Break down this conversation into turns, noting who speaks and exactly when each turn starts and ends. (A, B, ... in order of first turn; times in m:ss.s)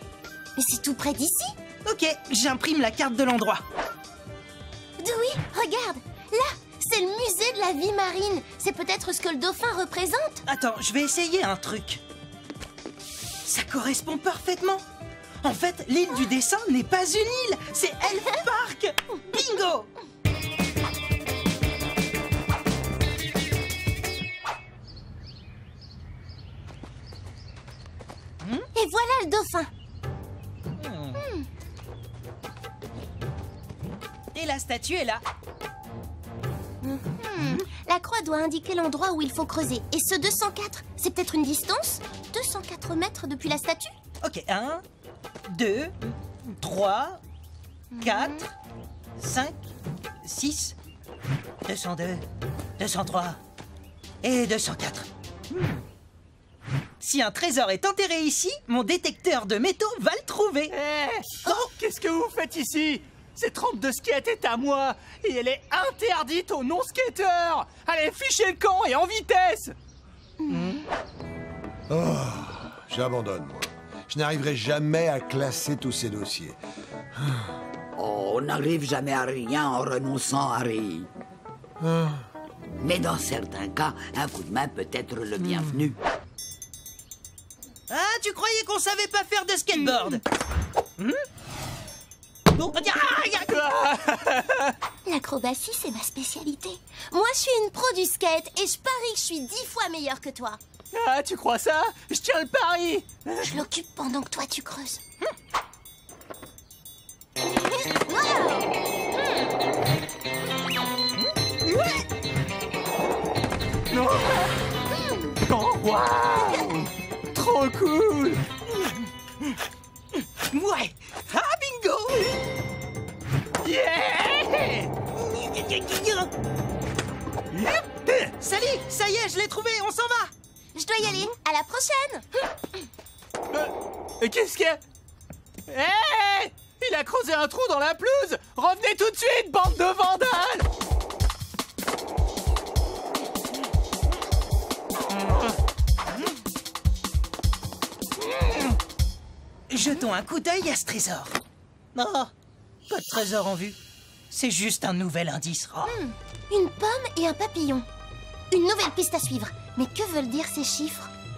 0:00.6-0:01.6 A
0:01.8-0:03.6 B
0:05.0-0:10.4 A
0:10.4-0:12.0 B
0:13.4-0:14.8 B
0:15.4-0:19.9 B
0:28.4-0:28.7 B
0:28.7-0:29.7 A
0:30.8-0:31.2 B
0:31.2-0:31.5 A
0:34.3-0:35.2 B
0:36.8-0:43.9 A
0:44.2-0:44.8 B
0:45.5-0:47.2 B
0:47.9-0:48.4 A
0:48.0-0:48.5 B
0:49.2-0:49.6 B
0:50.2-0:50.8 B
0:51.6-0:52.2 B
0:52.8-0:53.4 B
0:54.2-0:55.8 B
0:57.0-1:00.7 B
1:00.7-1:09.7 C
1:10.4-1:10.8 A
1:11.9-1:16.6 D
1:17.2-1:17.5 D
1:18.0-1:21.1 E
1:21.8-1:22.2 D
1:22.8-1:26.0 E
1:27.9-1:30.2 B
1:31.0-1:31.2 B
1:32.6-1:33.6 B
1:33.5-1:34.7 C
1:35.0-1:40.6 A
1:40.9-1:43.5 C
1:43.4-1:45.0 A
1:48.0-1:48.6 A
1:51.2-1:52.0 B
1:53.9-1:54.5 C
1:54.9-1:55.4 A
1:55.4-1:58.4 C
1:58.7-1:59.6 B
2:00.2-2:02.4 B
2:03.6-2:04.9 C
2:05.2-2:06.3 B
2:07.5-2:08.3 C
2:08.4-2:10.3 B
2:10.7-2:12.5 A
2:13.5-2:14.8 C
2:15.7-2:20.6 C
2:29.7-2:31.4 B
2:31.9-2:32.3 B
2:32.9-2:33.8 B
2:34.3-2:35.9 B
2:35.8-2:37.9 A
2:38.5-2:41.1 A